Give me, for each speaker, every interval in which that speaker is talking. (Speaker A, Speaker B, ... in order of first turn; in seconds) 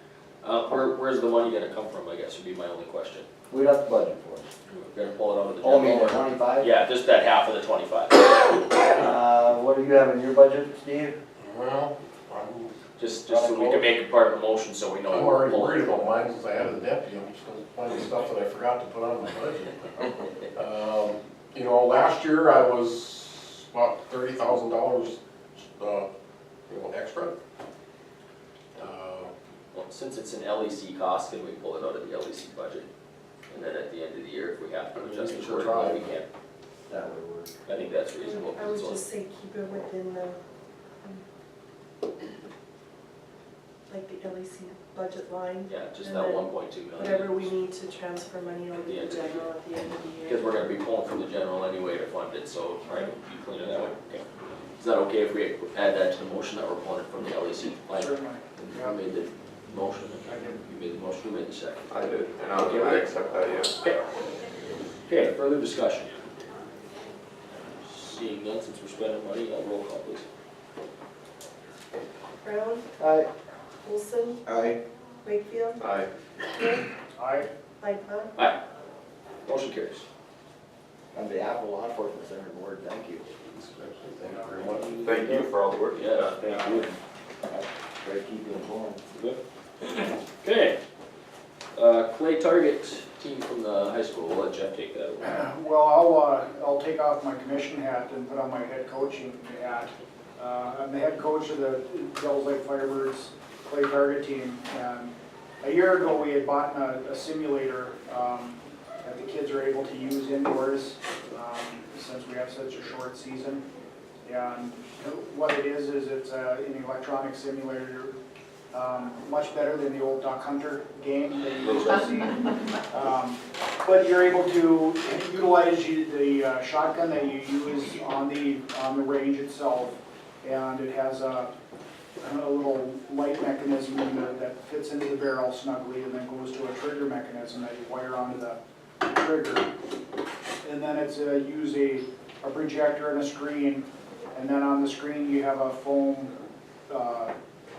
Speaker A: 0.4-3.3, 4.7-8.6, 13.0-15.9, 29.7-32.9, 33.5-36.3, 37.6-39.0, 45.7-47.5, 48.7-49.5, 50.2-63.1, 65.1-66.2, 67.5-70.2, 79.4-80.0, 85.9-86.9, 89.1-90.8, 91.7-95.5
Speaker B: 3.5-4.5, 5.6-6.7, 8.8-11.2, 13.3-13.9, 36.9-37.6, 73.0-73.3, 74.5-74.7, 81.1-83.3, 85.0-85.5, 86.1-89.0
Speaker C: 11.4-12.8, 15.1-26.1, 26.7-27.3, 28.8-29.3, 35.0-36.2, 83.5-85.2
Speaker D: 38.1-40.4, 43.9-50.6, 72.4-72.9, 73.8-74.4, 75.2-76.9, 77.8-78.5
Speaker E: 57.9-59.0, 60.3-60.6, 77.1-77.5, 95.2-113.6, 114.2-118.1, 118.7-131.5, 132.2-139.7, 140.6-146.3, 146.9-147.3
Speaker F: 61.9-63.7, 75.8-76.1, 85.0-86.1